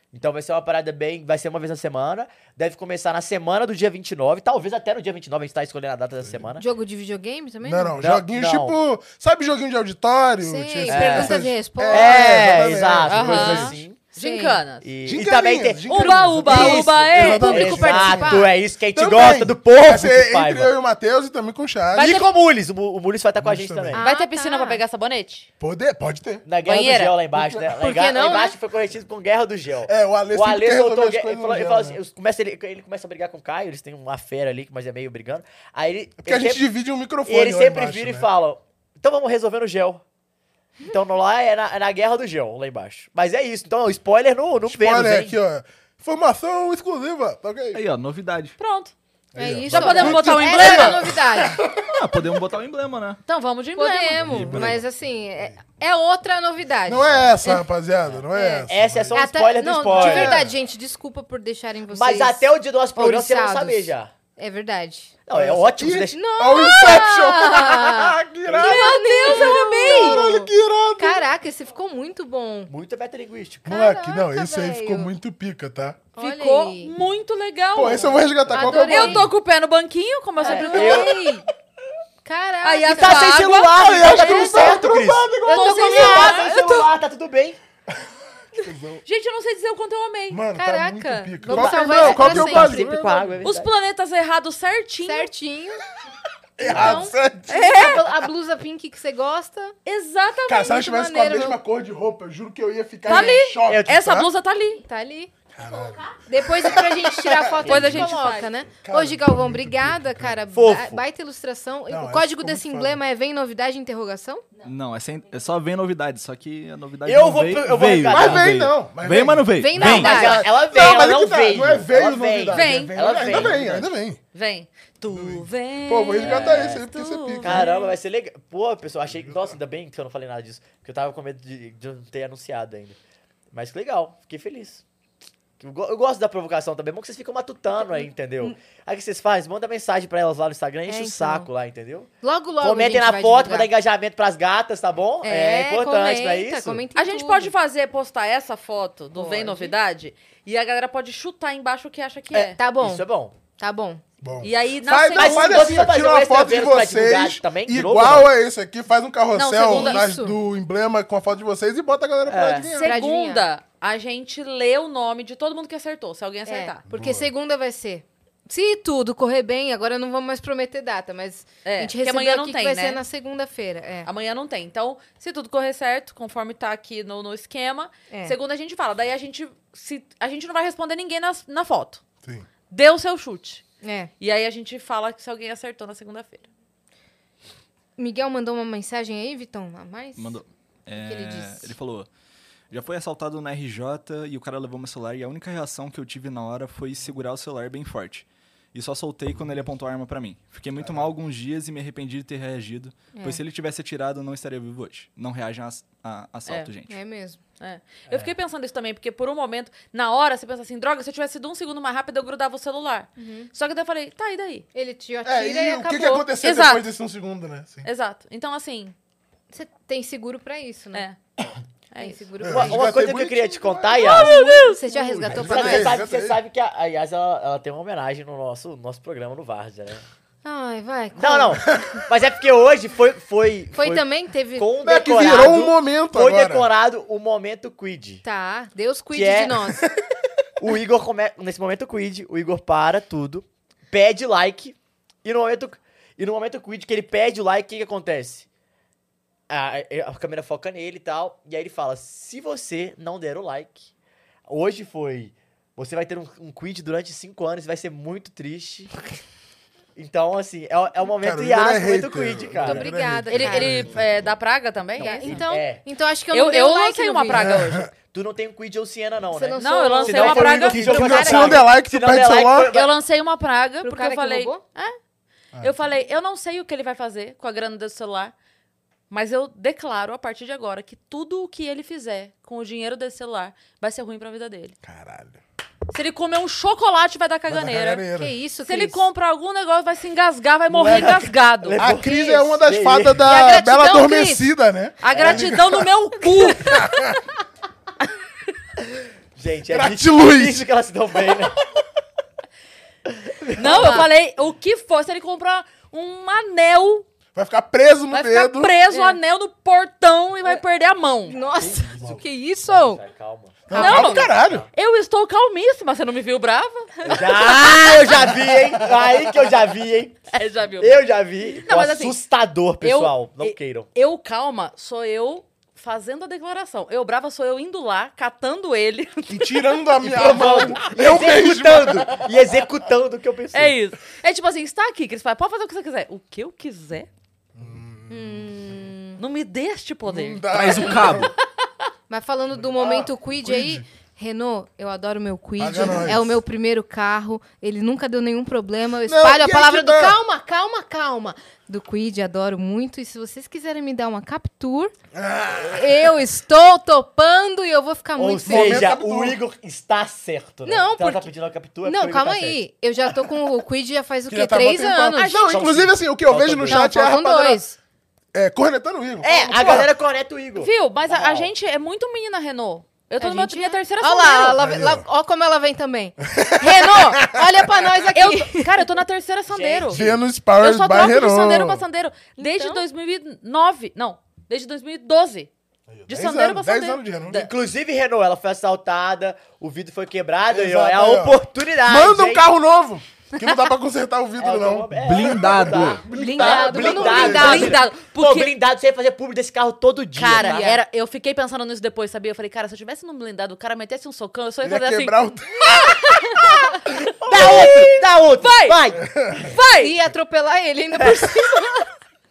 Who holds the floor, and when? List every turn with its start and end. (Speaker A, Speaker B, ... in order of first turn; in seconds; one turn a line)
Speaker A: 0.1-6.6
Speaker B: 6.6-8.0
Speaker C: 7.6-13.8
Speaker A: 8.0-8.8
Speaker B: 10.4-12.6
Speaker A: 10.9-14.0
Speaker D: 13.1-14.9
Speaker B: 14.2-14.6
Speaker A: 14.8-20.7
Speaker C: 15.1-22.2
Speaker D: 15.9-18.1
Speaker B: 16.5-18.5
Speaker D: 21.9-22.3
Speaker A: 22.0-24.0
Speaker C: 23.4-24.0
Speaker B: 23.9-24.8
Speaker D: 24.0-25.5
Speaker C: 25.6-26.4
Speaker A: 26.4-36.6
Speaker D: 26.6-27.2
Speaker B: 27.6-28.6
Speaker C: 29.9-32.0
Speaker C: 36.2-38.3
Speaker A: 37.2-40.0
Speaker A: 40.8-45.4
Speaker C: 44.7-47.8
Speaker E: 47.7-48.5
Speaker D: 48.6-48.9
Speaker C: 49.4-51.9
Speaker B: 49.4-51.6
Speaker D: 49.7-51.1
Speaker E: 51.9-53.2
Speaker D: 53.3-54.2
Speaker B: 53.8-57.7
Speaker C: 54.2-54.9
Speaker E: 54.3-54.7
Speaker C: 56.9-59.2
Speaker A: 58.1-60.5
Speaker B: 58.3-65.2
Speaker C: 59.9-60.5
Speaker A: 61.9-64.1
Speaker A: 65.3-66.2
Speaker C: 65.3-71.2
Speaker B: 66.1-72.7
Speaker D: 68.5-70.2
Speaker A: 72.7-73.8
Speaker B: 73.7-75.1
Speaker C: 73.7-76.0
Speaker B: 76.2-76.9
Speaker D: 76.2-81.2
Speaker C: 77.7-79.3
Speaker B: 78.5-79.3
Speaker B: 80.4-81.5
Speaker A: 80.4-81.2
Speaker B: 82.2-83.4
Speaker D: 82.6-84.8
Speaker A: 82.9-87.6
Speaker C: 83.7-86.2
Speaker B: 84.1-84.8
Speaker D: 85.4-86.8
Speaker B: 85.4-86.9
Speaker C: 88.6-89.0
Speaker D: 89.1-90.4
Speaker C: 90.3-93.4
Speaker B: 90.5-92.9
Speaker A: 91.5-93.7
Speaker D: 93.4-95.3
Speaker B: 95.0-95.8
Speaker C: 96.6-97.9
Speaker B: 96.6-99.7
Speaker A: 96.7-97.0
Speaker D: 97.5-98.1
Speaker D: 99.8-100.7
Speaker C: 100.5-104.3
Speaker B: 100.6-101.6
Speaker D: 103.1-104.8
Speaker B: 103.1-103.4
Speaker A: 103.7-104.1
Speaker B: 104.8-105.3
Speaker C: 105.5-108.2
Speaker B: 106.3-114.4
Speaker D: 107.6-108.5
Speaker C: 108.8-110.4
Speaker A: 110.5-111.0
Speaker C: 111.9-113.0
Speaker E: 114.6-120.3
Speaker A: 117.0-118.5
Speaker C: 118.0-124.2
Speaker B: 119.5-120.5
Speaker A: 119.8-123.9
Speaker D: 122.5-123.6
Speaker D: 124.3-127.9
Speaker C: 125.1-127.7
Speaker A: 126.2-126.9
Speaker A: 127.4-133.0
Speaker C: 129.1-129.6
Speaker A: 133.5-134.8
Speaker A: 135.6-142.1
Speaker B: 137.8-138.6
Speaker B: 140.9-141.5
Speaker B: 142.2-143.7
Speaker A: 142.6-146.8
Speaker B: 145.2-147.5
Speaker D: 146.9-152.6
Speaker A: 149.2-149.7
Speaker A: 152.3-153.3
Speaker B: 152.6-153.1
Speaker B: 153.6-154.0
Speaker C: 154.2-162.9
Speaker D: 154.4-155.8
Speaker A: 155.1-158.3
Speaker D: 159.3-160.0
Speaker B: 159.7-160.4
Speaker A: 162.3-162.7
Speaker D: 162.7-166.8
Speaker B: 162.8-163.4
Speaker B: 166.5-174.1
Speaker C: 166.9-167.3
Speaker D: 171.7-173.0
Speaker D: 174.1-182.0
Speaker B: 178.1-178.4
Speaker D: 182.7-183.6
Speaker B: 183.8-184.1
Speaker D: 184.2-186.5
Speaker B: 188.0-190.4
Speaker E: 190.2-192.1
Speaker B: 190.9-191.8
Speaker E: 192.7-207.0
Speaker C: 200.8-201.1
Speaker B: 203.2-203.4
Speaker B: 206.9-207.4
Speaker D: 207.6-214.7
Speaker B: 213.2-213.5
Speaker B: 214.8-216.3
Speaker C: 215.2-217.9
Speaker D: 216.4-216.8
Speaker D: 217.8-218.9
Speaker B: 219.5-221.1
Speaker D: 221.9-222.3
Speaker B: 222.0-222.9
Speaker C: 222.4-224.1
Speaker A: 222.5-224.4
Speaker D: 224.0-224.8
Speaker B: 224.0-226.0
Speaker C: 224.9-226.4
Speaker A: 225.2-230.1
Speaker B: 230.4-231.6
Speaker A: 231.2-238.2
Speaker C: 231.7-232.0
Speaker B: 233.7-234.7
Speaker C: 234.8-236.7
Speaker B: 238.2-239.8
Speaker A: 239.1-239.7
Speaker A: 240.6-248.5
Speaker A: 249.5-253.9
Speaker A: 254.5-258.9
Speaker A: 260.0-262.9
Speaker C: 261.2-264.0
Speaker B: 262.6-263.9
Speaker D: 263.3-265.4
Speaker B: 265.0-267.5
Speaker A: 265.0-265.8
Speaker D: 266.3-267.9
Speaker C: 267.3-267.9
Speaker A: 268.1-272.9
Speaker B: 269.3-271.6
Speaker D: 269.6-271.6
Speaker C: 270.5-272.7
Speaker D: 272.6-275.0
Speaker B: 273.8-274.6
Speaker D: 275.6-278.3
Speaker D: 279.1-284.8
Speaker C: 284.8-285.4
Speaker D: 285.9-288.0
Speaker C: 287.5-288.3
Speaker B: 288.2-289.0
Speaker D: 288.6-291.8
Speaker A: 290.7-293.3
Speaker C: 290.8-291.2
Speaker C: 291.8-295.9
Speaker B: 292.0-292.6
Speaker B: 293.2-294.5
Speaker D: 295.0-296.9
Speaker A: 295.1-295.6
Speaker B: 296.4-296.9
Speaker C: 296.6-297.2
Speaker A: 299.4-301.6
Speaker C: 299.7-300.6
Speaker A: 303.1-304.1
Speaker D: 303.6-307.1
Speaker B: 303.7-304.1
Speaker C: 307.4-308.7
Speaker D: 308.1-311.4
Speaker B: 308.9-309.2
Speaker B: 311.3-313.0
Speaker A: 311.6-314.7
Speaker C: 311.9-312.2
Speaker C: 313.7-314.7
Speaker B: 313.7-314.2
Speaker D: 313.7-318.1
Speaker A: 317.1-320.3
Speaker D: 320.3-322.2
Speaker A: 320.8-323.9
Speaker D: 322.8-329.8
Speaker C: 329.3-332.3
Speaker A: 330.0-333.8
Speaker D: 333.5-337.1
Speaker C: 337.6-338.5
Speaker B: 338.1-339.2
Speaker D: 339.2-341.2
Speaker C: 340.1-341.3
Speaker E: 340.5-341.3
Speaker B: 342.1-354.9
Speaker C: 342.6-343.8
Speaker C: 345.6-346.4
Speaker C: 349.1-350.2
Speaker C: 355.1-356.1
Speaker B: 355.6-358.9
Speaker A: 358.2-362.6
Speaker C: 358.4-359.4
Speaker B: 360.7-361.3
Speaker B: 361.8-365.4
Speaker C: 364.3-367.6
Speaker D: 365.2-365.8
Speaker A: 365.5-366.8
Speaker B: 366.7-367.8
Speaker C: 368.3-369.9
Speaker A: 369.2-371.5
Speaker D: 370.6-374.6
Speaker B: 373.2-378.7
Speaker C: 374.6-375.1
Speaker C: 376.3-377.9
Speaker D: 376.6-377.2
Speaker D: 378.1-385.5
Speaker A: 379.5-380.2
Speaker C: 379.9-381.8
Speaker B: 382.4-382.8
Speaker C: 385.9-387.4
Speaker D: 386.1-387.5
Speaker A: 387.3-392.5
Speaker C: 390.5-397.8
Speaker A: 394.4-400.7
Speaker E: 394.9-396.0
Speaker B: 396.1-397.8
Speaker D: 396.6-398.5
Speaker D: 400.2-408.8
Speaker B: 400.4-400.8
Speaker C: 404.6-406.2
Speaker A: 407.2-409.6
Speaker C: 409.1-409.5
Speaker D: 409.4-410.0
Speaker B: 409.8-411.9
Speaker A: 410.9-411.4